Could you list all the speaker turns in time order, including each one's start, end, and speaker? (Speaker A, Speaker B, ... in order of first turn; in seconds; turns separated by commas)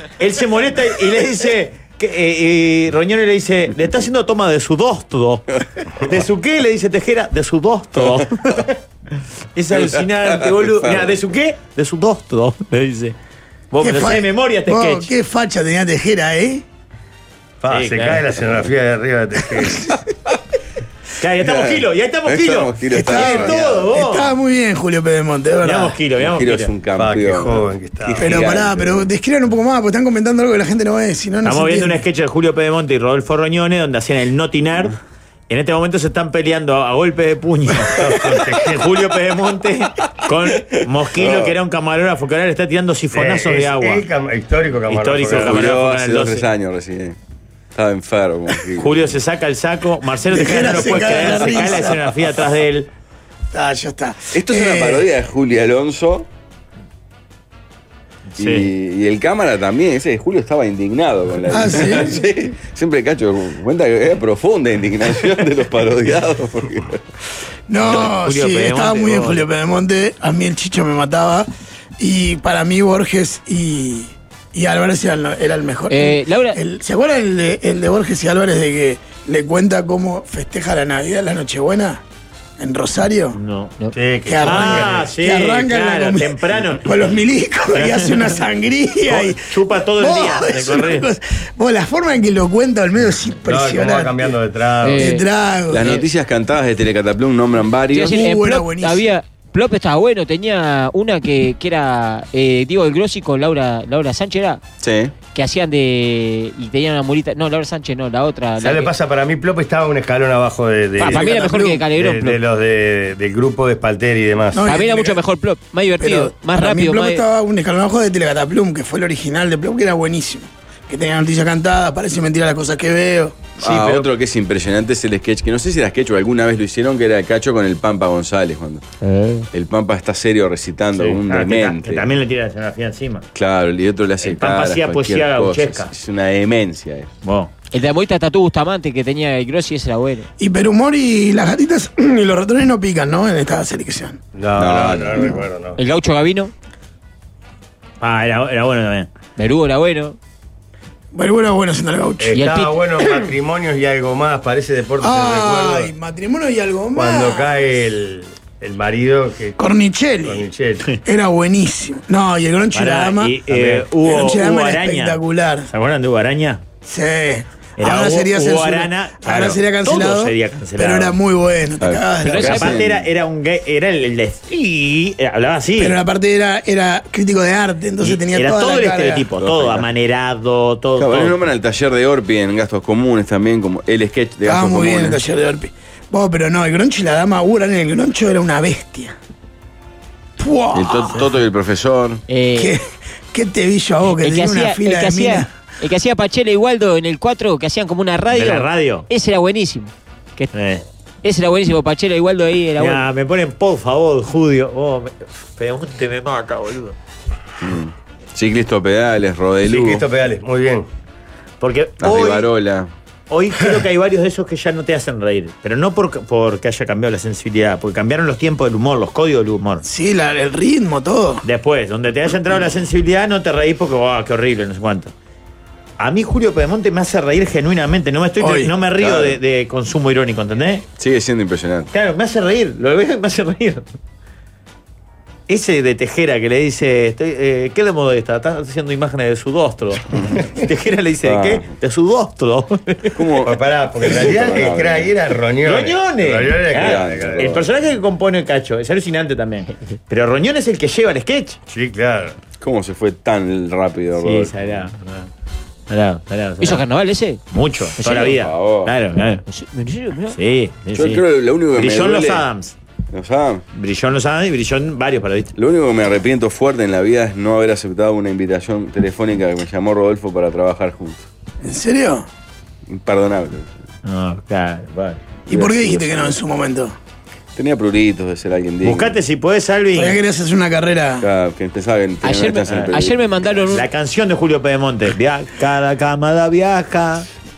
Speaker A: 0.2-8.8, Speaker A: 9.5-13.1, Speaker B: 9.7-11.2, Speaker A: 13.7-15.1, Speaker C: 13.8-16.6, Speaker D: 17.6-19.9, Speaker A: 17.7-18.2, Speaker A: 21.2-24.3, Speaker B: 21.4-23.6, Speaker C: 22.9-26.0, Speaker A: 25.6-26.7, Speaker B: 26.2-29.1, Speaker D: 26.9-28.5, Speaker C: 28.1-32.0, Speaker A: 31.4-35.0, Speaker A: 35.5-44.0, Speaker D: 38.0-39.0, Speaker B: 40.7-41.5, Speaker D: 43.1-45.6, Speaker A: 44.9-46.5, Speaker B: 45.3-47.2, Speaker B: 47.7-49.1, Speaker A: 48.7-52.9, Speaker C: 50.3-52.0, Speaker C: 53.5-55.1, Speaker B: 54.3-56.3, Speaker A: 58.4-58.7, Speaker B: 58.4-67.0, Speaker C: 61.5-62.2, Speaker C: 67.7-71.5, Speaker A: 67.8-69.5, Speaker C: 72.0-82.0, Speaker E: 75.9-76.6, Speaker C: 82.6-83.4, Speaker A: 83.3-83.7, Speaker D: 83.9-85.1, Speaker C: 84.2-94.3, Speaker A: 84.4-87.0, Speaker A: 87.7-88.3, Speaker A: 89.0-91.1, Speaker D: 93.5-95.1, Speaker E: 94.8-95.2, Speaker C: 95.0-96.0, Speaker B: 95.7-98.3, Speaker E: 97.9-104.6, Speaker C: 97.9-99.1, Speaker B: 104.8-105.1, Speaker E: 105.3-108.9, Speaker D: 108.6-114.7, Speaker C: 111.0-111.8, Speaker E: 111.0-112.4, Speaker C: 114.5-115.2, Speaker E: 114.6-117.2, Speaker C: 116.0-123.5, Speaker B: 123.6-128.8, Speaker D: 123.7-124.0, Speaker E: 129.0-129.5, Speaker B: 129.5-132.1, Speaker A: 130.9-133.2, Speaker B: 133.3-137.1, Speaker A: 134.2-135.9, Speaker A: 137.2-137.5, Speaker E: 137.7-140.3, Speaker C: 140.4-144.2, Speaker D: 144.3-145.8, Speaker B: 144.6-145.4, Speaker E: 145.8-146.5, Speaker A: 148.0-149.1, Speaker E: 149.4-150.2, Speaker C: 151.1-152.4, Speaker D: 152.2-155.9, Speaker E: 152.3-153.0, Speaker C: 155.0-157.5, Speaker D: 156.9-159.6, Speaker C: 159.6-160.5, Speaker D: 160.2-160.9, Speaker C: 161.0-165.7, Speaker A: 162.7-166.6, Speaker C: 166.8-172.6, Speaker A: 167.8-171.2, Speaker B: 171.8-173.1, Speaker E: 172.2-172.8, Speaker A: 172.4-176.0, Speaker C: 175.8-179.3, Speaker A: 178.0-181.4, Speaker B: 179.4-179.8, Speaker B: 181.0-185.2, Speaker C: 184.4-189.2, Speaker C: 190.4-191.3, Speaker B: 190.7-192.2, Speaker E: 192.3-192.8, Speaker C: 192.6-195.5, Speaker E: 194.2-200.5, Speaker A: 198.3-199.1, Speaker A: 200.5-200.8, Speaker E: 201.2-203.1, Speaker A: 202.8-206.9, Speaker B: 207.6-210.1, Speaker D: 209.6-210.9, Speaker A: 211.6-212.5, Speaker B: 212.0-212.9, Speaker A: 213.3-219.8, Speaker C: 219.8-221.4, Speaker A: 221.4-225.1, Speaker A: 226.0-230.8, Speaker C: 228.4-228.7, Speaker B: 229.0-229.4, Speaker B: 231.0-231.9, Speaker A: 231.9-233.9, Speaker A: 235.5-243.3, Speaker B: 241.2-241.7, Speaker B: 243.1-245.1, Speaker D: 243.4-247.5, Speaker A: 245.6-251.6, Speaker B: 246.7-247.7, Speaker D: 251.7-252.4, Speaker B: 252.6-254.8, Speaker A: 254.2-255.3, Speaker A: 255.9-256.8, Speaker E: 256.6-257.4, Speaker A: 257.5-259.4, Speaker E: 258.0-258.4, Speaker B: 258.2-258.9, Speaker E: 259.5-260.4, Speaker A: 260.3-262.7, Speaker B: 260.9-262.4, Speaker B: 263.1-263.6, Speaker A: 263.7-265.5, Speaker B: 265.5-271.3, Speaker C: 271.6-272.3, Speaker B: 272.9-273.7, Speaker A: 274.0-275.2, Speaker C: 275.5-276.9, Speaker B: 275.5-276.4, Speaker B: 277.6-279.1, Speaker A: 278.8-280.2, Speaker C: 279.9-281.3, Speaker B: 281.2-283.7, Speaker E: 282.2-283.9, Speaker A: 283.7-287.3